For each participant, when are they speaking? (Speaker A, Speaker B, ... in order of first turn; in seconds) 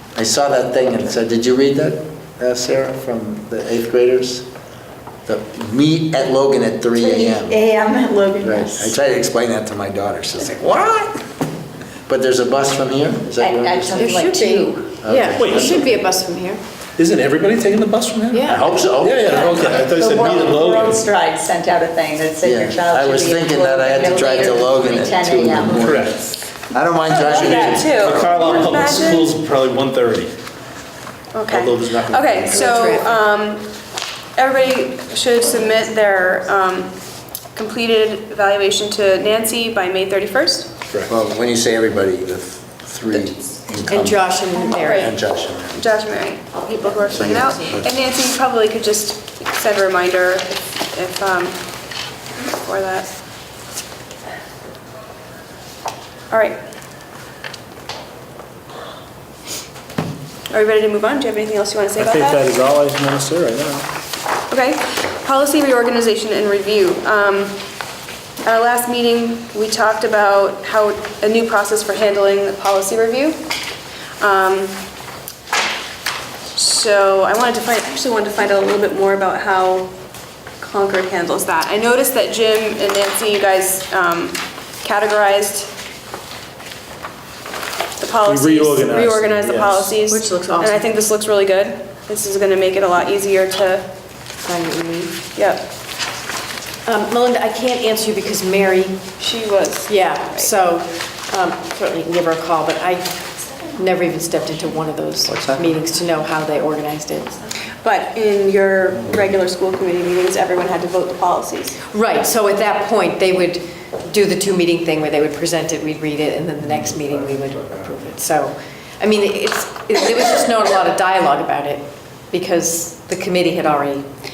Speaker A: 0.1-4.5, 5.3-7.6, 8.4-11.2, 12.1-14.1, 15.0-16.0, 18.4-19.4, 22.4-26.2, 26.7-28.4, 41.1-44.2, 44.8-45.8, 47.1-47.9, 105.3-105.6
Speaker B: 6.9-8.9, 13.4-14.9, 19.1-26.1
Speaker C: 13.9-16.6, 18.3-18.8, 32.5-33.2, 43.9-45.1, 90.1-91.0, 94.4-95.2, 96.8-99.0, 99.8-107.4, 111.9-124.0
Speaker D: 15.4-15.8, 17.0-21.1, 25.8-26.2, 27.2-30.3, 31.5-32.8, 62.0-63.9, 88.2-90.0
Speaker E: 27.1-29.3, 31.3-33.7, 34.4-36.9, 37.5-40.7, 44.7-45.2, 45.7-51.6, 52.4-53.2, 56.3-56.6, 60.5-62.4, 64.5-67.6, 68.4-73.4, 74.2-74.8, 76.5-79.9, 80.6-85.7, 88.0-93.8, 95.3-95.6, 99.2-100.5, 107.8-111.8